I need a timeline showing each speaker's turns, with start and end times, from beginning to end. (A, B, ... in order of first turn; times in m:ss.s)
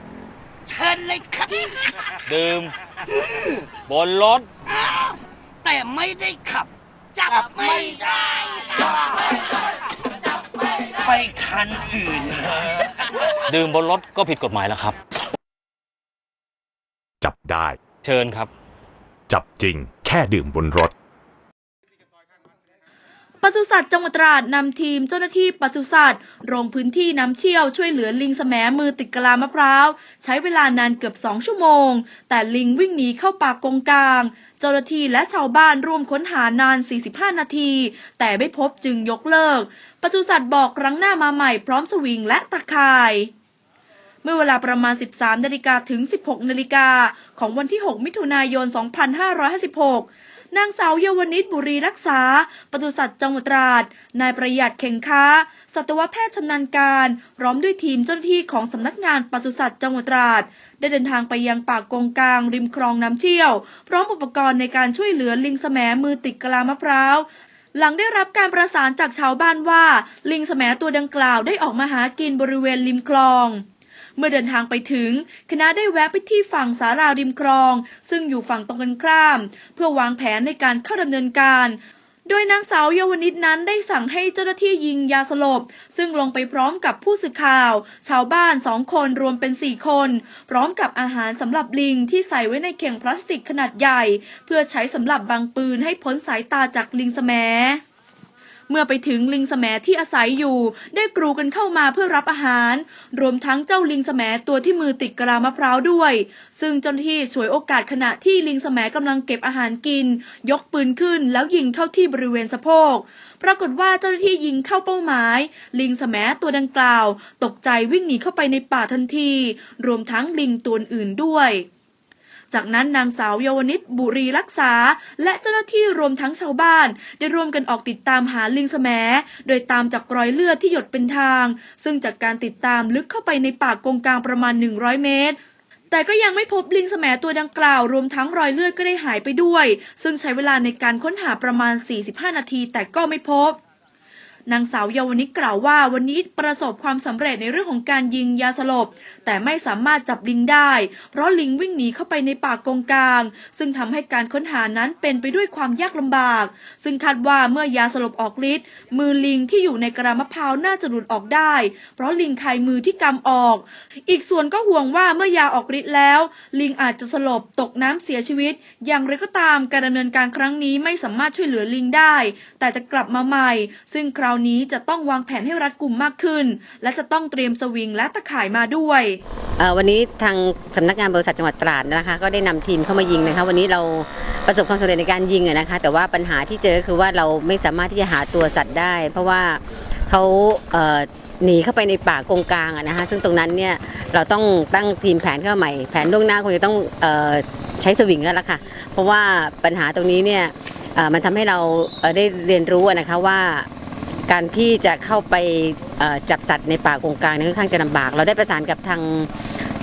0:00.7-0:01.7 A
0:02.2-0:02.7 B
0:03.9-0:04.5 B
0:05.6-0:08.8 A
0:07.2-0:07.9 B
0:11.1-0:12.4 A
0:13.5-0:15.0 B
0:17.2-0:17.7 C
0:18.0-0:18.5 B
0:19.3-0:20.9 C
0:23.4-0:43.3 D
0:44.2-1:13.6 D
1:14.2-1:37.8 D
1:38.7-2:01.7 D
2:02.5-2:15.4 D
2:15.9-2:23.6 D
2:24.5-2:59.2 D
2:59.6-3:23.7 E
3:24.3-3:29.3 E